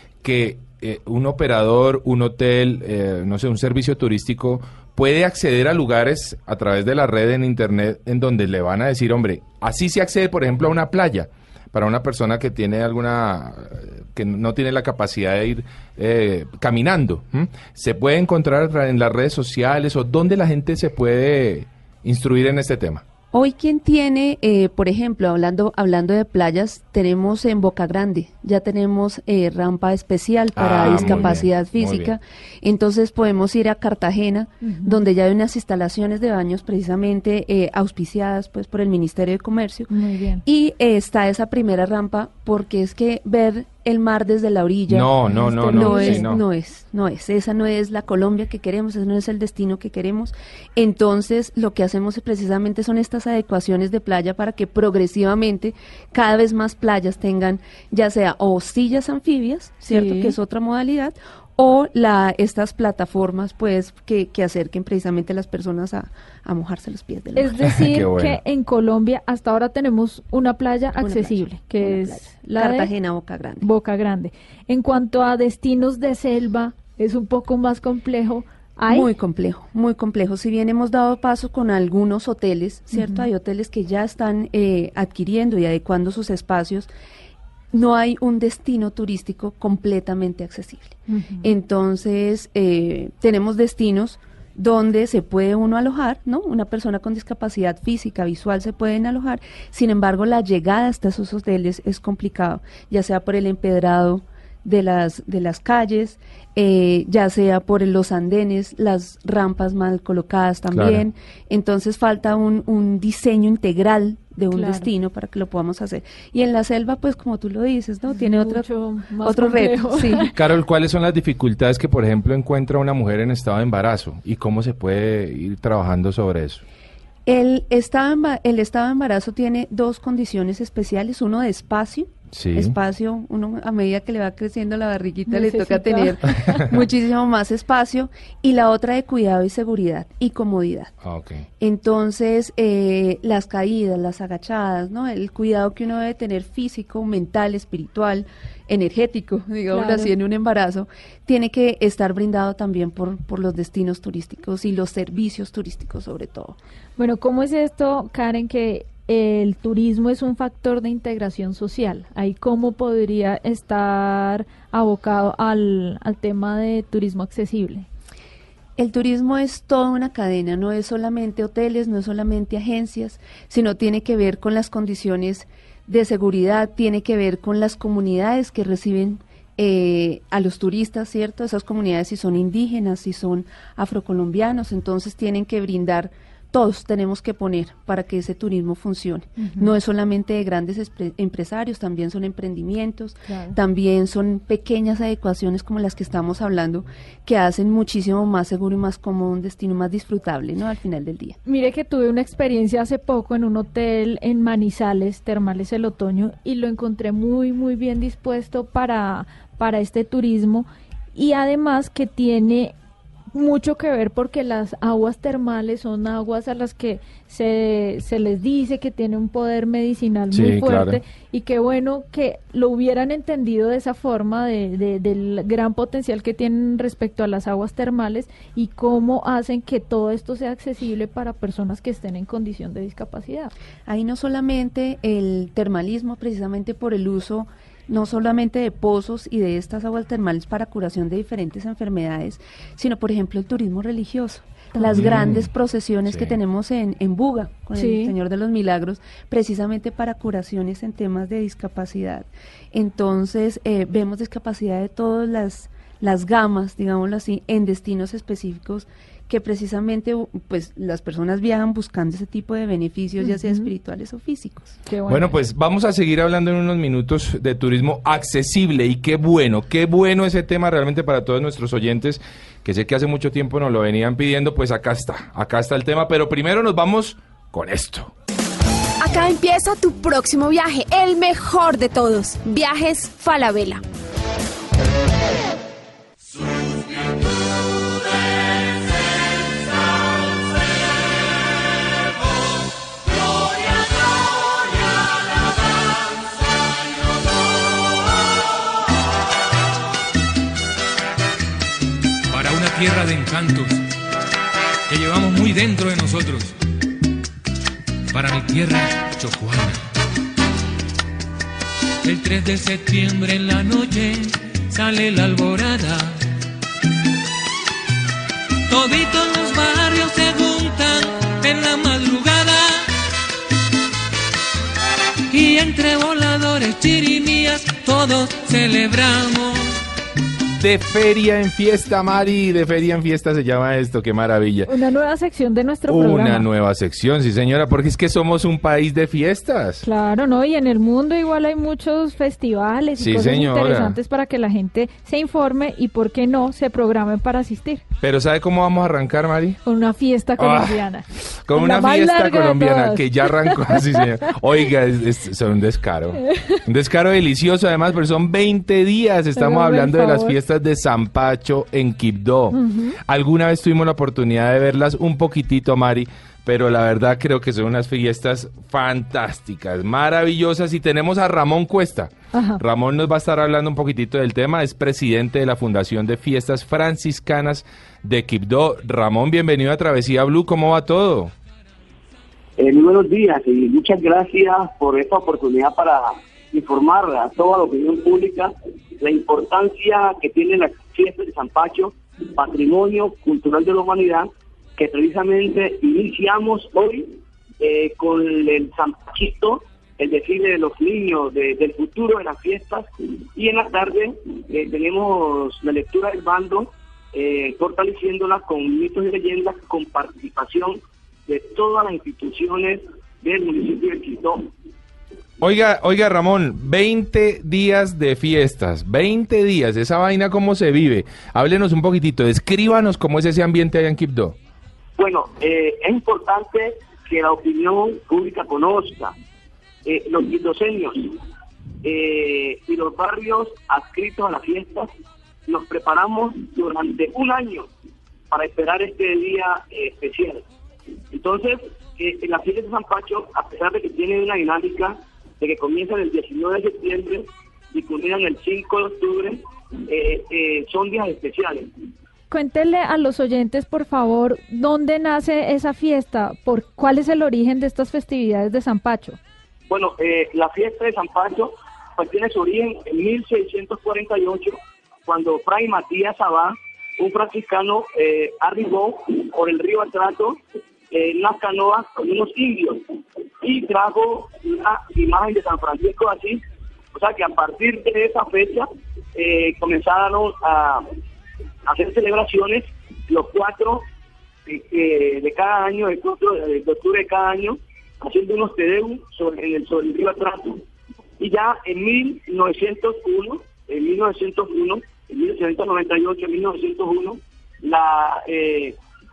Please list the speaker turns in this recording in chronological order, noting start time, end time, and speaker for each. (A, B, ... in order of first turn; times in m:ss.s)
0:00.2-0:23.0 A
0:23.3-0:39.9 B
0:30.5-0:32.1 A
0:30.8-0:31.4 C
0:34.6-0:35.0 C
0:39.9-0:40.4 C
0:40.4-1:07.6 B
0:44.9-0:46.4 A
0:45.3-0:46.3 C
0:59.8-1:00.4 C
1:07.4-1:12.9 C
1:07.7-1:08.4 A
1:11.0-1:13.6 B
1:13.6-1:19.1 C
1:18.9-1:26.9 B
1:22.9-1:23.3 C
1:27.7-1:58.7 B
1:31.1-1:31.5 C
1:50.7-1:51.0 A
1:54.5-1:54.9 C
1:58.1-2:00.3 C
1:59.2-2:00.3 B
2:00.4-2:06.6 A
2:07.3-2:20.9 B
2:12.3-2:12.8 A
2:15.3-2:16.6 C
2:21.0-2:21.4 A
2:21.6-2:36.6 B
2:29.7-2:30.1 C
2:37.0-2:47.9 C
2:48.8-3:21.4 B
3:09.4-3:09.7 C
3:13.3-3:13.6 C
3:21.4-3:32.7 C
3:33.3-3:53.5 C
3:40.3-3:41.0 A
3:53.9-4:24.8 B
4:04.8-4:05.1 C
4:04.9-4:05.5 A
4:06.1-4:06.4 A
4:07.8-4:08.1 C
4:23.2-4:23.7 C
4:24.9-4:25.3 C
4:25.1-4:38.1 A
4:39.0-4:43.8 D
5:02.3-5:03.8 E
5:04.9-5:06.5 E
5:08.1-5:09.8 E
5:12.0-5:16.2 E
5:18.7-5:22.9 E
5:25.3-5:29.8 E
5:30.6-5:34.7 A
5:34.7-5:36.5 C
5:35.9-5:39.8 A
5:39.8-5:47.8 C
5:43.0-5:44.0 A
5:48.0-5:49.6 A
5:49.6-5:54.0 C
5:50.4-5:50.8 A
5:51.4-6:21.3 A
5:56.2-5:56.6 C
5:59.4-6:00.4 C
6:02.5-6:03.0 C
6:12.3-6:12.6 C
6:22.6-6:54.5 F
6:55.4-7:04.4 A
7:05.0-7:09.1 F
7:09.8-7:11.2 F
7:11.8-7:14.9 F
7:15.5-7:17.7 F
7:18.3-7:20.4 F
7:21.1-7:31.7 F
7:32.3-7:39.2 C
7:39.7-7:50.4 F
7:50.9-7:52.8 F
7:53.4-7:56.4 F
7:56.9-8:00.8 F
8:01.6-8:03.8 F
8:04.4-8:10.6 F
8:11.2-8:18.8 F